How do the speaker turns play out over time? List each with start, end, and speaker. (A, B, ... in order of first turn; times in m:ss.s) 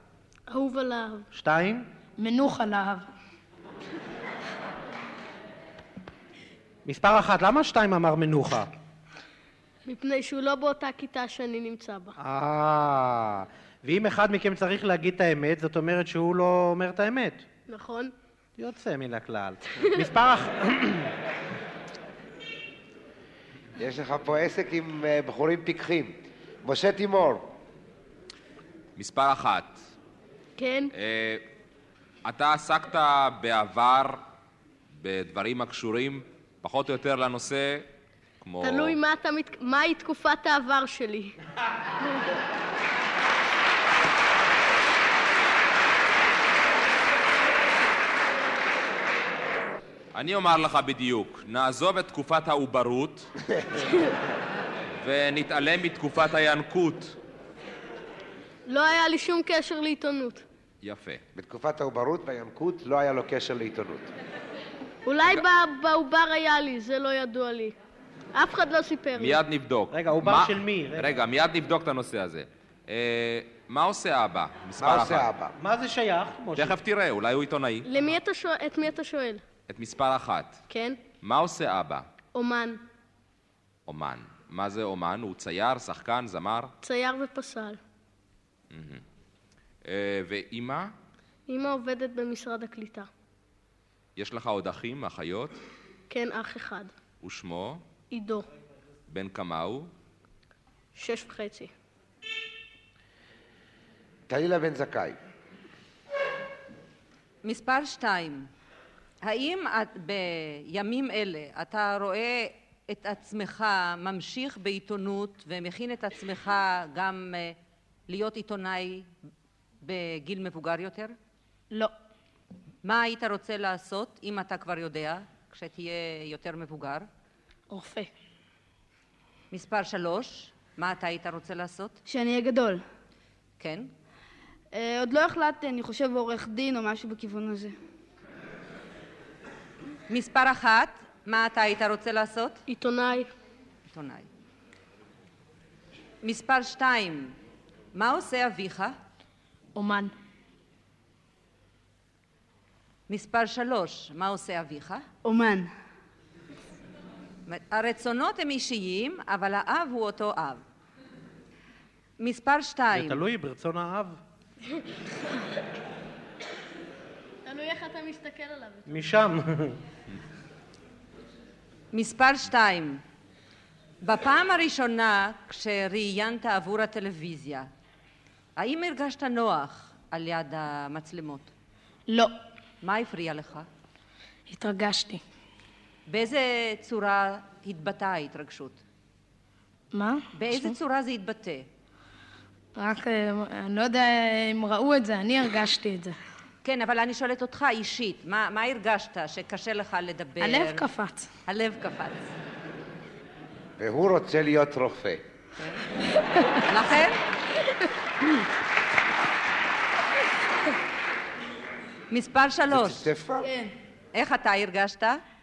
0:00.5-0:01.3 A
0:01.3-0:01.9 B
0:02.2-0:03.1 C
0:06.8-0:08.7 B
0:09.9-0:12.2 A
0:12.2-0:17.4 B
0:17.7-0:18.1 A
0:18.6-0:21.1 B
0:23.8-0:27.5 D
0:29.0-0:29.8 E
0:30.6-0:30.9 A
0:31.0-0:31.5 E
0:32.2-0:34.2 E
0:35.0-0:37.9 E
0:38.4-0:39.0 E
0:38.6-0:41.4 A
0:50.2-0:53.3 E
0:55.0-0:57.2 E
0:58.7-1:00.4 A
1:00.8-1:01.2 E
1:01.4-1:04.1 D
1:05.1-1:07.8 A
1:08.4-1:09.4 A
1:09.2-1:15.3 E
1:09.9-1:11.2 B
1:14.8-1:15.5 D
1:15.6-1:16.8 B
1:16.6-1:17.9 E
1:17.8-1:19.4 A
1:19.7-1:20.6 E
1:20.7-1:21.0 A
1:21.2-1:22.1 E
1:22.3-1:22.8 A
1:23.9-1:26.7 E
1:26.8-1:27.8 A
1:28.7-1:29.0 E
1:29.8-1:30.9 E
1:31.5-1:33.1 A
1:34.2-1:35.6 E
1:36.1-1:36.9 A
1:37.2-1:37.8 E
1:38.1-1:38.5 A
1:39.1-1:39.9 E
1:41.0-1:41.7 A
1:44.3-1:45.2 D
1:47.4-1:48.5 F
1:49.2-1:57.6 F
1:58.1-1:59.1 F
1:59.8-2:01.1 F
2:02.8-2:07.1 F
2:07.7-2:08.1 C
2:09.5-2:12.0 F
2:12.1-2:12.8 G
2:13.6-2:13.9 F
2:14.7-2:17.7 G
2:20.1-2:22.6 F
2:22.7-2:23.3 A
2:23.9-2:24.3 F
2:26.2-2:27.4 F
2:27.9-2:29.0 F
2:29.8-2:30.1 C
2:33.1-2:35.1 F
2:35.2-2:35.7 G
2:37.5-2:40.6 F
2:42.2-2:43.2 F
2:42.9-2:44.2 B
2:47.4-2:48.9 A
2:48.9-2:49.8 B
2:51.9-2:53.0 F
2:54.0-2:57.7 F
2:58.6-3:01.5 F
3:02.1-3:02.3 C
3:02.8-3:03.7 F
3:04.5-3:05.2 C
3:06.1-3:08.8 F
3:09.9-3:10.8 C
3:10.4-3:11.7 F
3:12.8-3:16.2 C
3:16.6-3:20.9 F
3:20.4-3:21.3 C
3:21.5-3:22.3 F
3:23.8-3:25.2 D
3:26.6-3:27.2 F
3:32.1-3:33.1 F
3:32.7-3:33.5 D
3:33.4-3:33.7 G
3:34.1-3:35.2 F